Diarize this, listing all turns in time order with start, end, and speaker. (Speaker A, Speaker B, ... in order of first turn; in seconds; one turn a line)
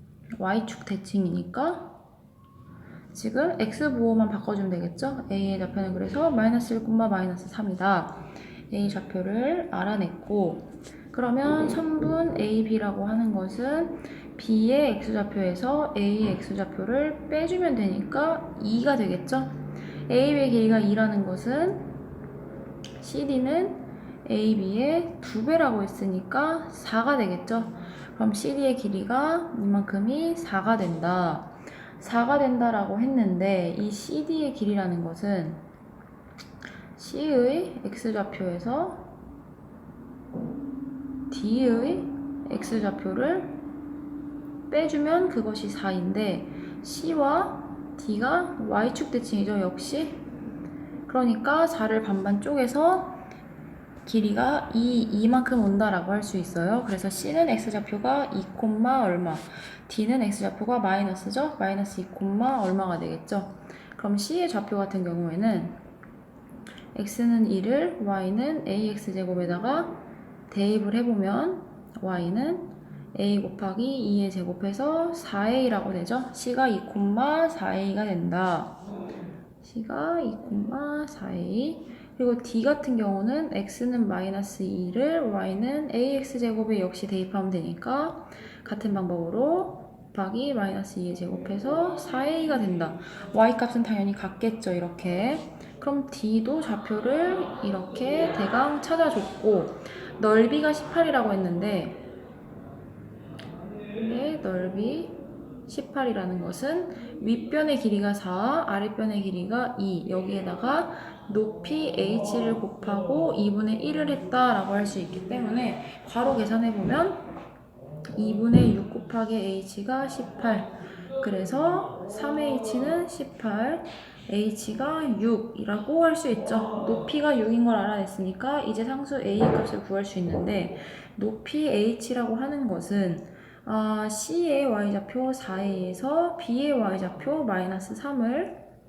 Speaker A: 0.4-1.9
Speaker A: 3.1-21.9
Speaker A: 23.0-35.6
Speaker A: 37.0-39.1
Speaker A: 41.3-43.6
Speaker A: 44.7-50.2
Speaker A: 51.1-53.2
Speaker A: 54.0-65.8
Speaker A: 66.9-78.8
Speaker A: 79.6-102.0
Speaker A: 104.0-117.2
Speaker A: 118.2-138.6